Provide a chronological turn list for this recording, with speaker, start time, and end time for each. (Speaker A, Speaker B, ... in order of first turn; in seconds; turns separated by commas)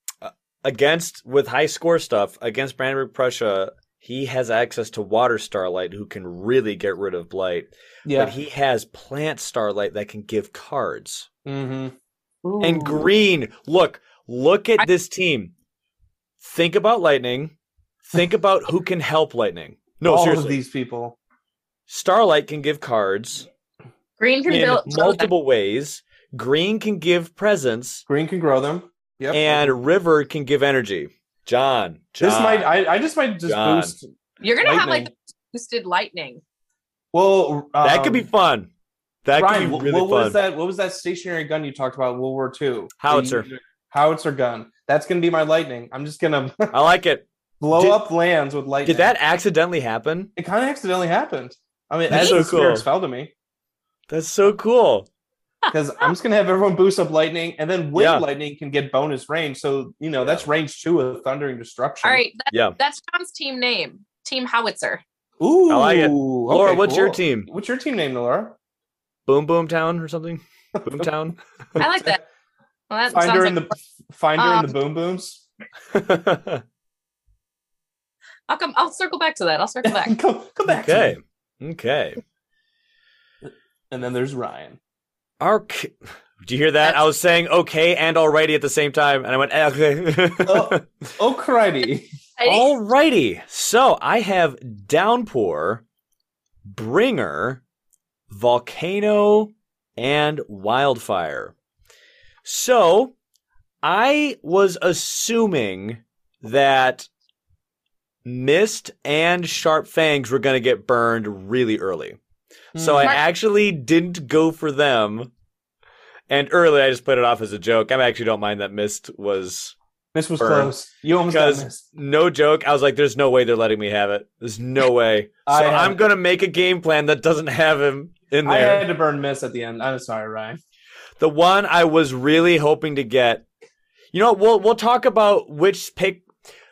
Speaker A: 0.2-11.3, Speaker B: 8.1-8.3, Speaker B: 11.4-11.9, Speaker C: 12.4-13.1, Speaker A: 12.6-15.5, Speaker A: 16.4-17.5, Speaker A: 18.1-20.6, Speaker B: 20.0-21.2, Speaker A: 21.9-23.5, Speaker C: 24.2-25.3, Speaker A: 24.5-28.1, Speaker B: 28.1-29.8, Speaker A: 29.3-32.7, Speaker B: 32.2-34.1, Speaker A: 33.5-34.0, Speaker C: 34.4-36.4, Speaker B: 34.6-35.1, Speaker B: 37.1-38.3, Speaker A: 37.8-38.7, Speaker A: 39.2-40.4, Speaker B: 39.4-46.7, Speaker A: 43.0-43.5, Speaker A: 46.7-48.0, Speaker B: 47.6-49.1, Speaker A: 48.9-50.3, Speaker B: 50.4-53.3, Speaker A: 52.1-52.9, Speaker C: 52.1-52.4, Speaker A: 54.1-55.1, Speaker B: 55.7-62.2, Speaker A: 58.0-58.2, Speaker A: 60.2-60.5, Speaker C: 62.0-65.0, Speaker A: 62.5-62.8, Speaker B: 65.4-68.6, Speaker A: 65.7-67.5, Speaker A: 69.3-71.8, Speaker B: 70.8-71.1, Speaker C: 71.8-72.2, Speaker C: 72.9-73.6, Speaker B: 73.1-75.4, Speaker C: 74.4-74.7, Speaker A: 75.9-76.6, Speaker C: 78.5-80.2, Speaker B: 79.8-81.2, Speaker A: 80.7-82.2, Speaker B: 83.9-84.8, Speaker A: 85.4-90.9, Speaker B: 90.5-92.1, Speaker C: 92.4-92.7, Speaker A: 92.5-95.8, Speaker A: 96.7-97.6, Speaker A: 98.3-101.5, Speaker A: 102.5-103.1, Speaker A: 103.8-107.1, Speaker A: 108.2-112.2, Speaker B: 112.8-113.2, Speaker A: 112.8-115.3, Speaker A: 116.3-119.8, Speaker B: 120.1-121.8, Speaker A: 120.4-120.7, Speaker A: 121.3-128.8, Speaker B: 125.5-126.0, Speaker B: 128.4-130.6, Speaker A: 131.2-133.4, Speaker A: 134.1-136.3